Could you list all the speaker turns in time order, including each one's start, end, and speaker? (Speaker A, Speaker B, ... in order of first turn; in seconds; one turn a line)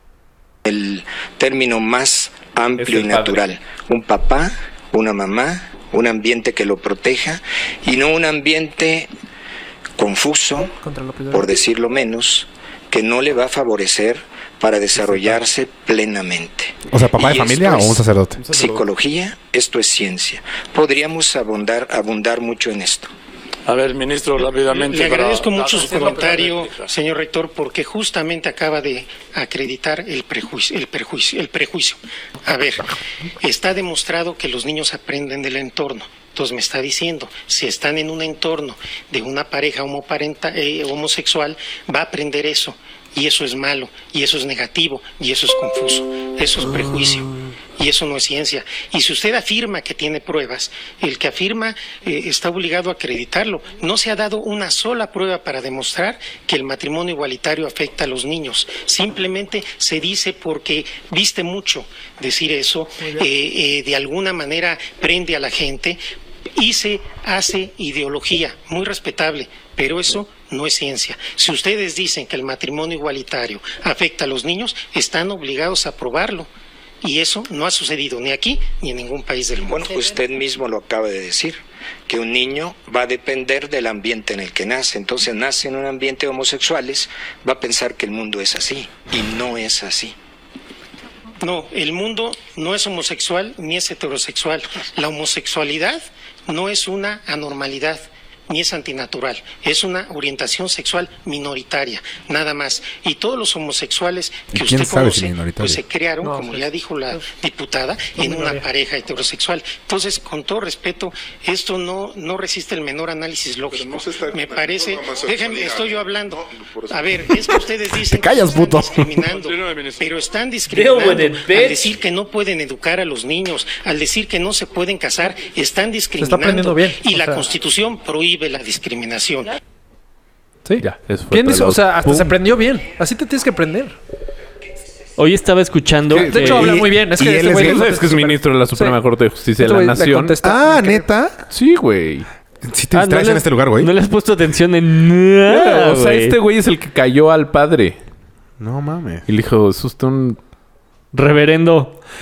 Speaker A: 0.7-9.1
Speaker B: 2.8-3.4
Speaker A: 10.0-10.7
Speaker C: 10.8-11.5
Speaker A: 11.3-23.1
Speaker D: 16.9-18.4
Speaker B: 18.4-18.8
Speaker E: 23.7-26.9
Speaker F: 24.8-66.0
Speaker C: 25.7-26.4
Speaker C: 63.0-63.3
Speaker F: 66.5-76.5
Speaker F: 77.0-80.2
Speaker A: 79.6-90.2
Speaker F: 91.4-129.6
Speaker D: 104.5-105.8
Speaker C: 106.2-107.2
Speaker C: 108.2-108.6
Speaker D: 117.9-119.2
Speaker E: 119.3-120.0
Speaker G: 120.7-121.9
Speaker C: 126.2-127.5
Speaker C: 130.7-134.0
Speaker B: 130.8-131.9
Speaker G: 132.1-132.3
Speaker G: 135.2-136.7
Speaker B: 136.1-136.8
Speaker C: 136.1-139.0
Speaker D: 136.3-137.9
Speaker B: 137.5-140.3
Speaker C: 139.6-141.1
Speaker D: 140.4-141.4
Speaker B: 141.5-142.3
Speaker D: 142.6-143.9
Speaker G: 142.9-146.3
Speaker B: 145.5-148.0
Speaker D: 148.6-149.2
Speaker B: 149.3-150.4
Speaker G: 151.1-152.0